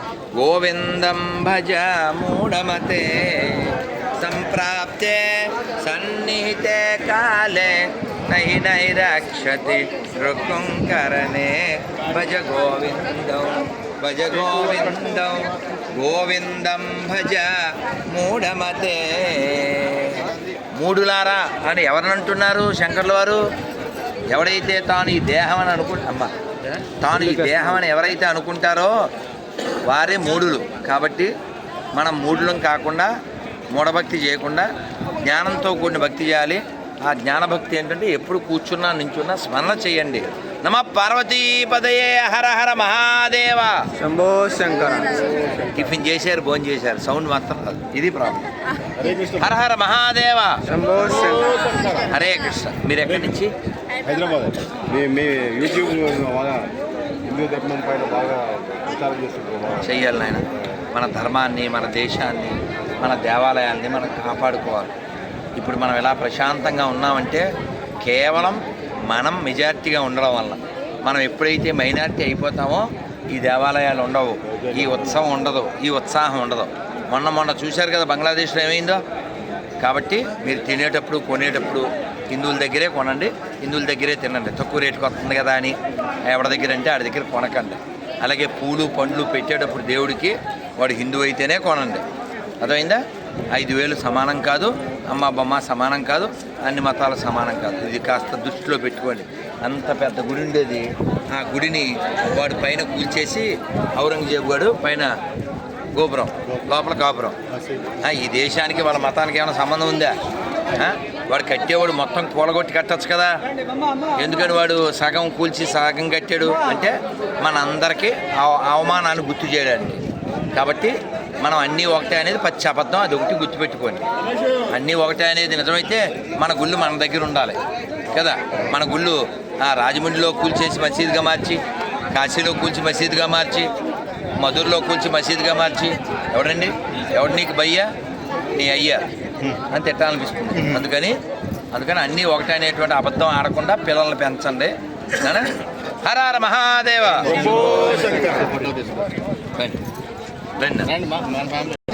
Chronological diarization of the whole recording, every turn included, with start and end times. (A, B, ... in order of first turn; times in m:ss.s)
0:00.3-0:23.4 A
0:24.3-0:26.3 A
0:27.0-0:28.9 A
0:27.4-0:27.7 B
0:29.8-0:31.3 A
0:31.9-0:33.1 A
0:33.7-0:34.6 A
0:35.2-0:43.9 A
0:44.0-0:45.4 B
0:45.7-0:48.5 A
0:49.3-0:50.6 A
0:50.7-0:51.7 B
0:52.1-0:53.5 A
0:54.1-0:59.8 C
0:59.7-1:04.9 A
1:05.6-1:07.4 A
1:08.0-1:19.0 A
1:19.8-1:32.0 A
1:32.6-1:33.0 A
1:33.5-1:45.1 A
1:45.9-1:47.4 A
1:48.0-1:50.2 A
1:50.7-1:53.3 A
1:54.2-2:00.0 A
2:00.5-2:04.0 A
2:04.7-2:07.6 A
2:08.1-2:11.6 A
2:12.1-2:13.7 A
2:14.4-2:17.9 A
2:18.5-2:21.2 A
2:21.7-2:28.3 A
2:30.6-2:31.0 A